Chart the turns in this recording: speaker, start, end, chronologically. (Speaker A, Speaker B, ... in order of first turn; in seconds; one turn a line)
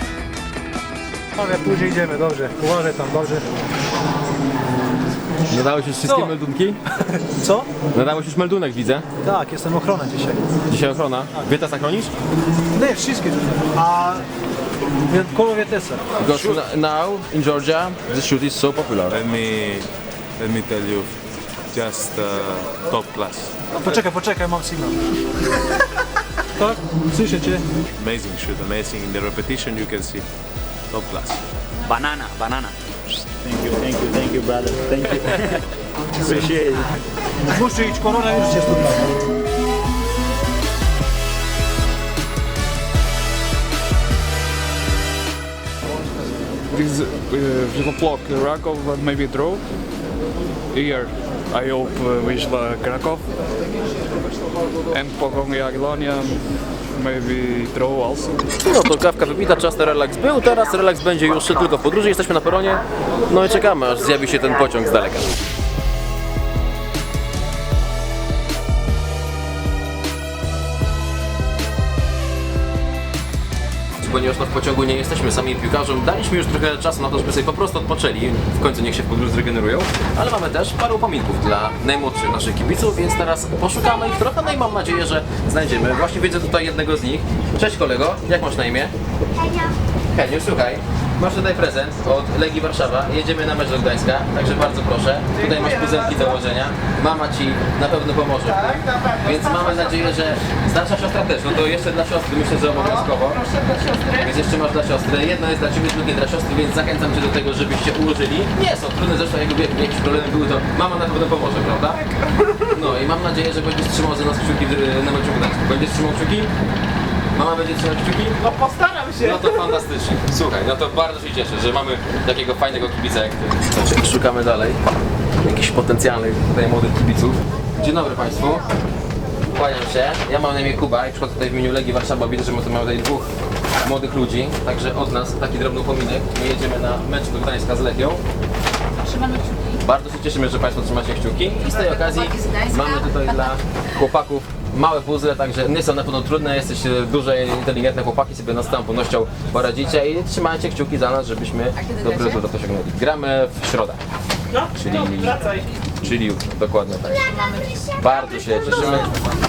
Speaker A: 1.4-3.5
Speaker B: 5.5-6.8
Speaker A: 6.1-6.3
Speaker A: 7.4-7.7
Speaker B: 7.9-9.1
Speaker A: 9.2-10.4
Speaker B: 10.7-12.1
Speaker A: 12.7-14.2
Speaker A: 15.1-16.0
Speaker B: 16.2-19.2
Speaker C: 19.1-21.2
Speaker C: 21.7-23.6
Speaker A: 23.7-25.1
Speaker A: 26.6-27.6
Speaker C: 28.0-30.3
Speaker C: 30.9-31.4
Speaker D: 31.8-35.6
Speaker D: 36.2-36.9
Speaker A: 37.5-39.1
Speaker E: 46.7-49.6
Speaker E: 50.7-53.3
Speaker E: 54.9-56.4
Speaker E: 56.9-58.4
Speaker B: 58.6-65.3
Speaker B: 74.0-88.9
Speaker B: 90.1-116.5
Speaker F: 98.8-99.6
Speaker F: 103.4-104.2
Speaker B: 117.3-124.8
Speaker F: 118.5-119.2
Speaker B: 125.4-128.7
Speaker B: 129.5-133.3
Speaker B: 133.8-138.2
Speaker F: 139.1-139.8
Speaker B: 139.7-154.0
Speaker F: 141.9-143.2
Speaker F: 152.0-152.3
Speaker B: 154.6-159.2
Speaker F: 157.3-157.9